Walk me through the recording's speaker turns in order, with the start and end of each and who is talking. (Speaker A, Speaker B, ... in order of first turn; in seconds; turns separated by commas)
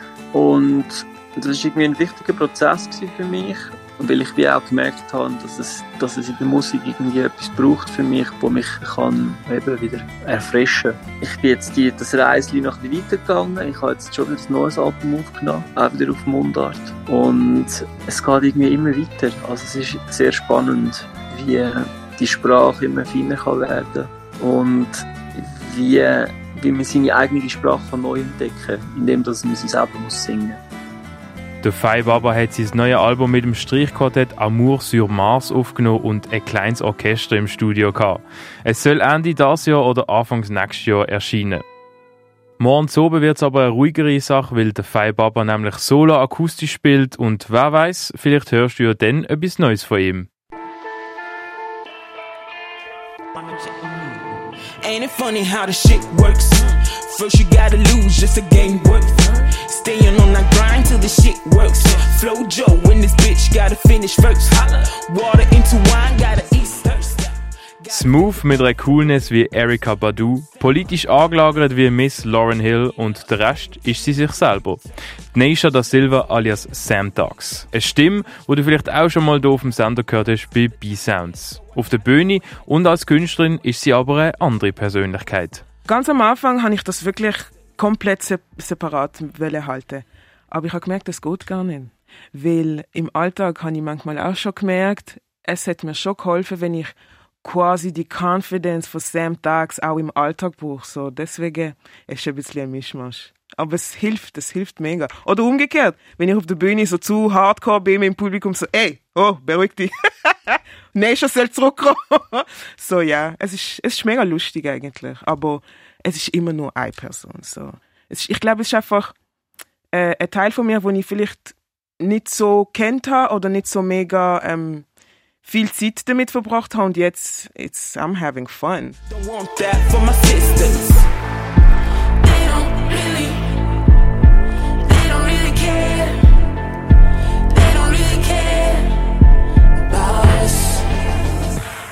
Speaker A: 0.3-30.6, Speaker B: 31.6-41.6, Speaker B: 42.6-50.3, Speaker C: 53.3-54.2, Speaker C: 54.8-67.3, Speaker B: 67.9-74.8, Speaker B: 75.3-85.6, Speaker D: 85.9-119.1, Speaker D: 119.9-124.8, Speaker D: 125.4-129.0, Speaker C: 129.1-131.1, Speaker C: 132.2-133.5, Speaker C: 134.8-136.2, Speaker C: 137.5-139.0, Speaker C: 139.9-140.8